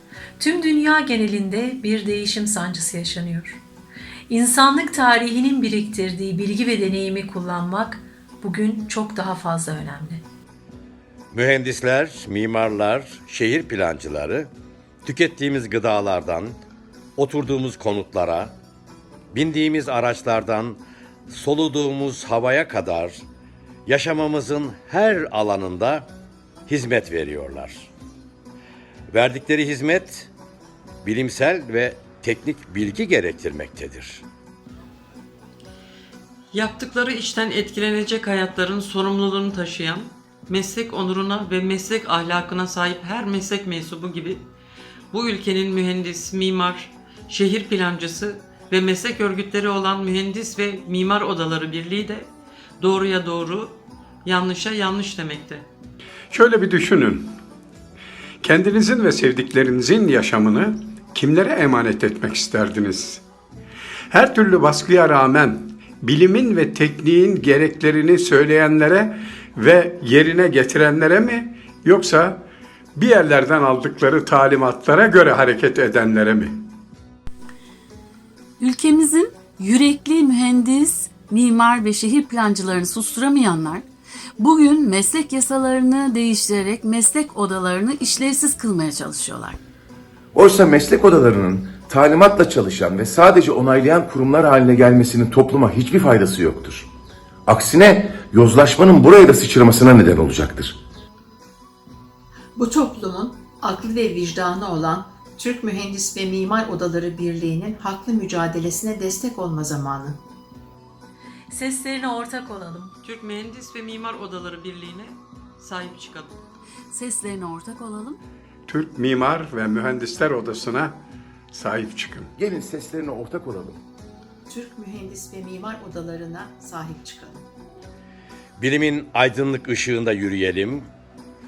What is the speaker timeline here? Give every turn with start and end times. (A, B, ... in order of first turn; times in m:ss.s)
0:00.4-0:03.6 A
0:04.3-0:10.2 A
0:11.3-0:14.5 B
0:15.0-0:16.6 B
0:17.2-0:18.6 B
0:19.3-0:23.2 B
0:23.9-0:26.1 B
0:26.7-0:27.9 B
0:29.1-0:30.3 B
0:31.0-0:34.2 B
0:36.5-0:44.4 C
0:45.1-0:55.7 C
0:56.3-0:57.4 D
0:58.4-1:03.2 D
1:04.1-1:16.7 D
1:18.6-1:23.8 E
1:24.4-1:29.6 E
1:30.3-1:36.9 F
1:37.5-1:40.8 F
1:42.6-1:50.2 G
1:51.5-1:53.0 A
1:53.0-1:56.4 C
1:56.9-1:58.2 E
1:58.7-2:02.3 D
2:02.4-2:03.8 F
2:04.5-2:07.5 G
2:08.6-2:10.9 B